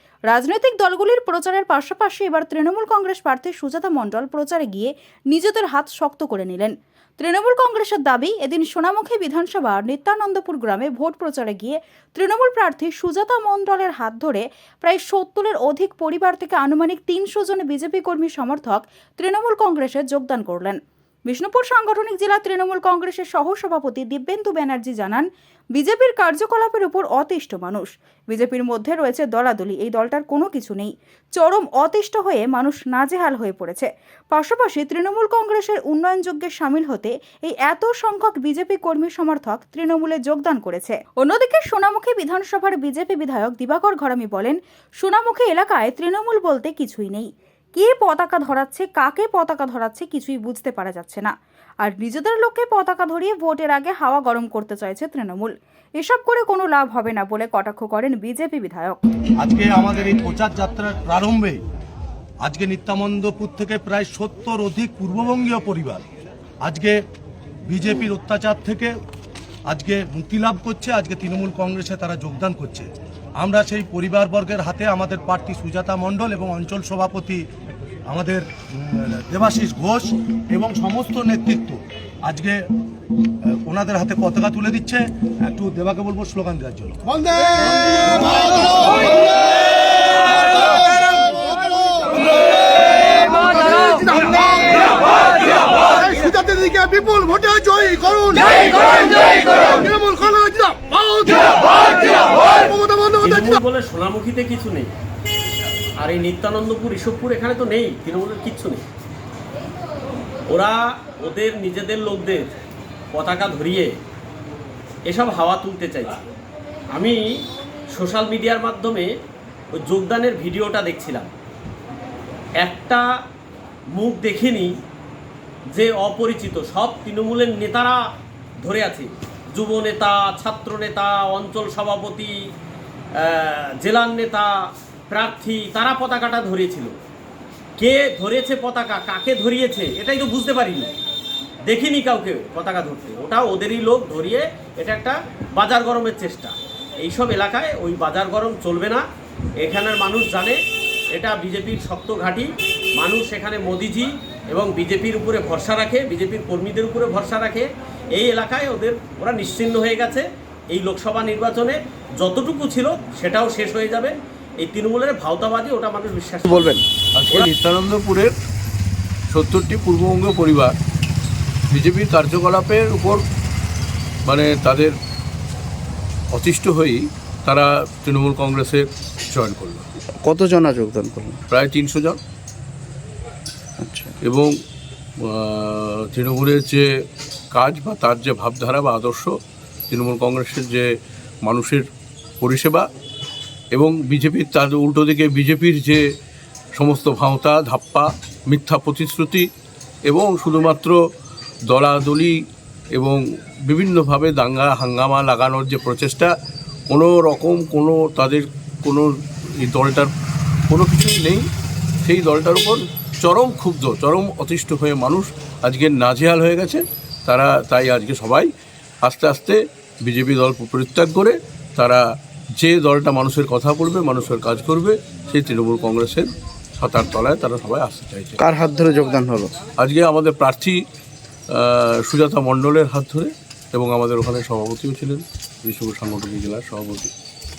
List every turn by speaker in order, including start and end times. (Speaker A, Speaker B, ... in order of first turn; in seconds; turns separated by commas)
Speaker A: 0.3-59.0, Speaker B: 59.4-61.6, Speaker B: 62.4-66.1, Speaker B: 66.6-67.0, Speaker B: 67.7-69.0, Speaker B: 69.7-77.4, Speaker B: 78.1-82.7, Speaker B: 83.2-88.5, Speaker C: 93.5-94.7, Speaker C: 96.0-101.7, Speaker D: 101.7-104.9, Speaker C: 102.9-103.1, Speaker D: 106.0-108.8, Speaker D: 110.5-112.5, Speaker D: 113.1-114.0, Speaker D: 115.1-116.2, Speaker D: 116.9-119.2, Speaker D: 119.8-121.3, Speaker D: 122.6-123.1, Speaker D: 123.9-124.8, Speaker D: 125.8-128.0, Speaker D: 128.6-132.4, Speaker D: 133.2-136.9, Speaker D: 137.8-140.9, Speaker D: 141.7-149.0, Speaker D: 149.6-150.6, Speaker D: 151.1-166.8, Speaker E: 166.5-166.8, Speaker F: 167.2-168.3, Speaker F: 169.3-170.7, Speaker F: 171.7-173.2, Speaker F: 174.2-174.9, Speaker F: 176.3-179.9, Speaker E: 180.2-181.4, Speaker F: 181.5-182.2, Speaker E: 183.8-184.2, Speaker F: 184.2-184.5, Speaker F: 185.2-186.9, Speaker F: 187.5-189.4, Speaker F: 189.9-190.9, Speaker F: 191.4-191.9, Speaker F: 192.4-192.9, Speaker F: 193.7-196.0, Speaker F: 196.8-199.5, Speaker F: 200.1-201.0, Speaker F: 201.7-202.4, Speaker F: 202.9-206.3, Speaker F: 206.9-210.1, Speaker F: 210.7-211.5, Speaker F: 212.0-218.5, Speaker F: 219.0-222.0, Speaker F: 222.6-228.4, Speaker E: 228.4-229.6, Speaker F: 229.8-230.8, Speaker F: 231.5-237.1